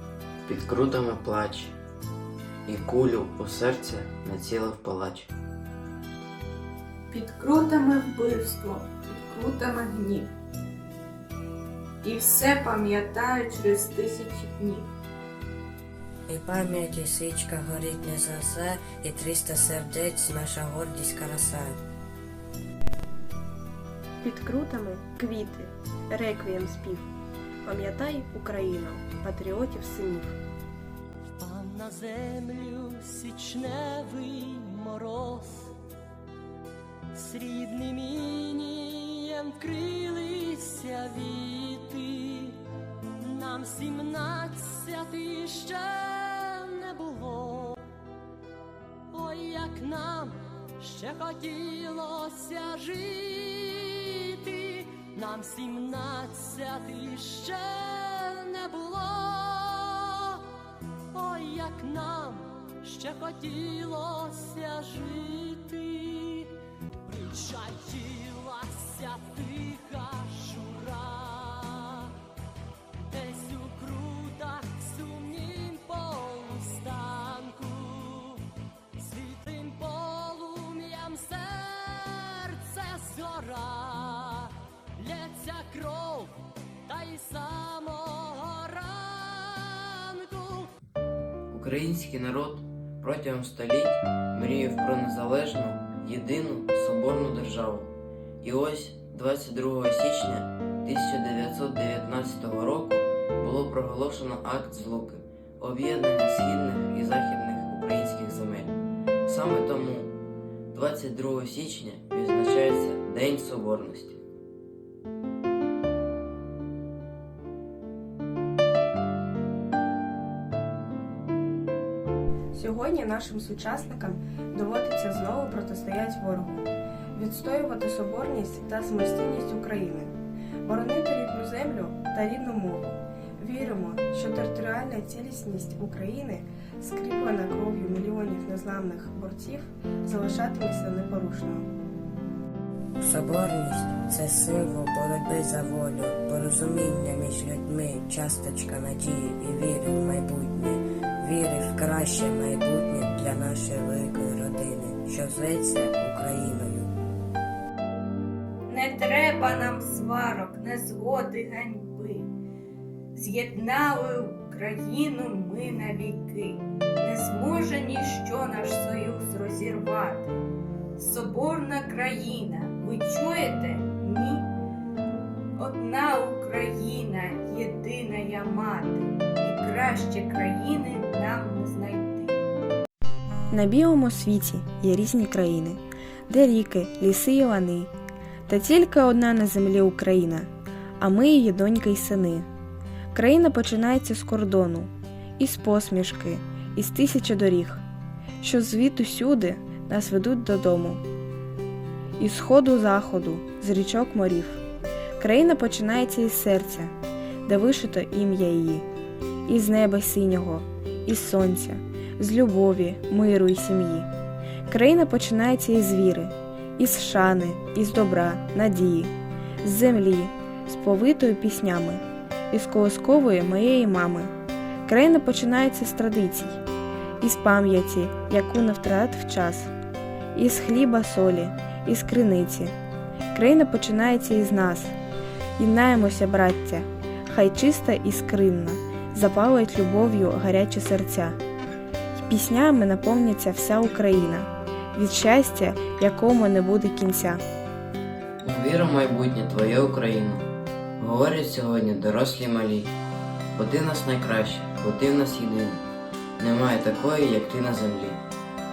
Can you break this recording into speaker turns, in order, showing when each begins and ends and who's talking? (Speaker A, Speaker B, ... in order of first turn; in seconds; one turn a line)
Speaker A: 0.4-1.8
Speaker A: 2.6-5.3
Speaker B: 7.1-10.3
Speaker B: 12.0-14.9
Speaker C: 16.3-21.8
Speaker D: 24.2-27.1
Speaker D: 27.6-30.4
Speaker E: 31.4-35.7
Speaker E: 37.2-42.5
Speaker E: 43.3-47.8
Speaker E: 49.1-60.0
Speaker E: 61.1-66.5
Speaker E: 67.1-71.9
Speaker E: 73.1-78.3
Speaker E: 79.0-84.5
Speaker E: 85.0-86.3
Speaker E: 86.9-90.7
Speaker A: 91.5-108.7
Speaker A: 109.2-110.1
Speaker A: 110.7-114.2
Speaker D: 122.5-141.7
Speaker C: 143.0-156.9
Speaker B: 158.7-162.3
Speaker B: 163.1-170.3
Speaker B: 170.9-174.5
Speaker B: 175.6-182.4
Speaker D: 183.5-187.9
Speaker D: 188.5-190.5
Speaker D: 191.0-192.5
Speaker D: 193.1-197.8
Speaker D: 198.4-201.0
Speaker D: 202.2-204.6
Speaker D: 205.2-206.9
Speaker D: 207.4-208.8
Speaker D: 209.4-214.1
Speaker D: 214.7-224.3
Speaker D: 224.8-226.6
Speaker D: 227.2-229.7
Speaker D: 230.3-232.7
Speaker D: 233.3-234.9
Speaker D: 235.6-241.4
Speaker D: 242.1-247.4
Speaker A: 248.4-250.4
Speaker A: 251.0-252.9
Speaker A: 253.5-255.8
Speaker A: 256.4-258.2